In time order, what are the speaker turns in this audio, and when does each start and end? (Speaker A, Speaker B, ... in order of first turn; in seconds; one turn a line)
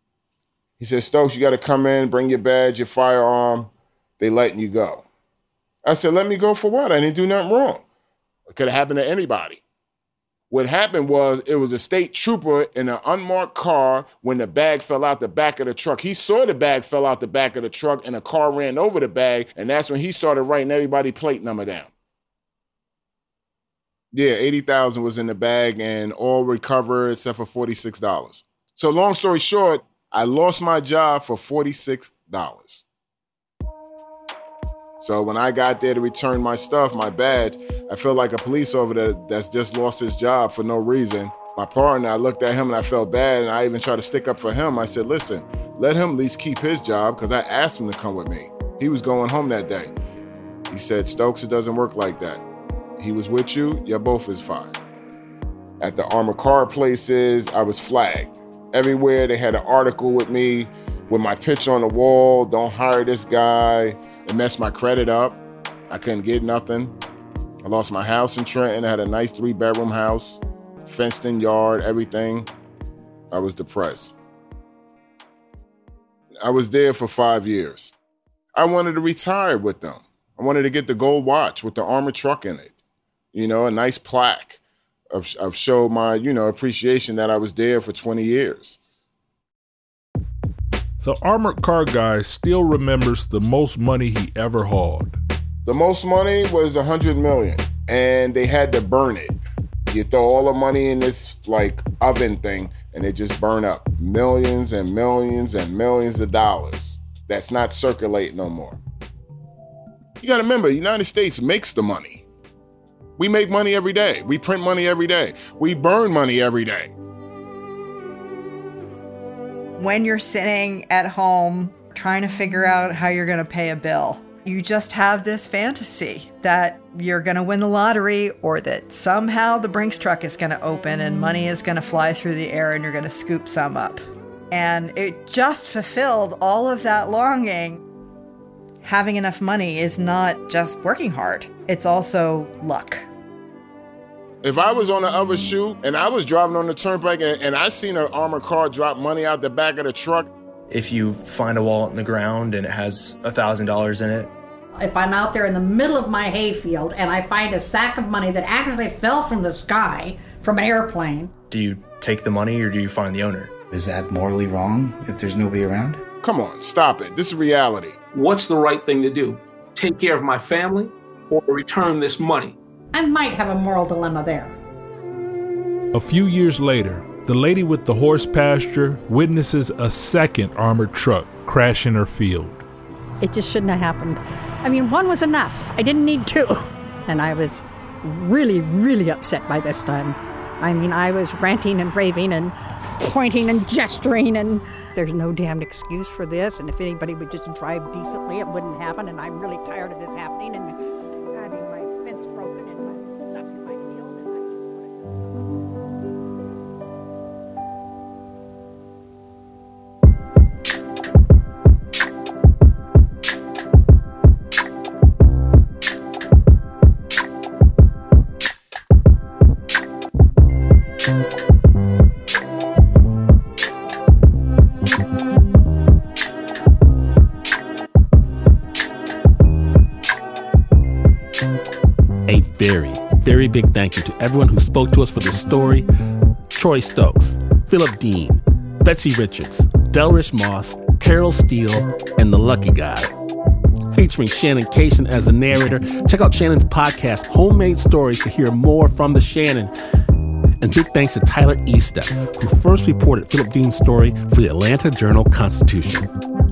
Speaker A: 0.8-5.0
Speaker A: 5.8-7.8
Speaker A: 8.5-9.6
Speaker A: 10.5-21.9
Speaker A: 24.1-32.8
Speaker A: 35.0-49.9
Speaker A: 50.7-52.4
Speaker A: 53.0-54.8
Speaker A: 55.8-66.9
Speaker A: 67.6-72.5
Speaker A: 73.3-74.1
Speaker A: 76.4-77.9
Speaker A: 78.5-82.7
Speaker A: 83.3-84.6
Speaker A: 85.1-88.8
Speaker B: 91.0-95.2
Speaker A: 95.6-108.8
Speaker A: 110.2-112.2
Speaker A: 113.2-116.9
Speaker C: 119.8-137.8
Speaker C: 138.8-143.1
Speaker A: 144.4-150.3
Speaker D: 150.7-154.3
Speaker E: 154.8-161.3
Speaker D: 161.5-163.5
Speaker F: 163.7-166.0
Speaker A: 166.2-168.0
Speaker G: 168.1-172.6
Speaker E: 172.9-174.6
Speaker B: 175.9-182.6
Speaker E: 183.2-200.8
Speaker E: 201.3-205.5
Speaker H: 232.3-235.9
Speaker H: 236.5-243.1
Speaker H: 243.9-249.7
Speaker H: 250.6-256.1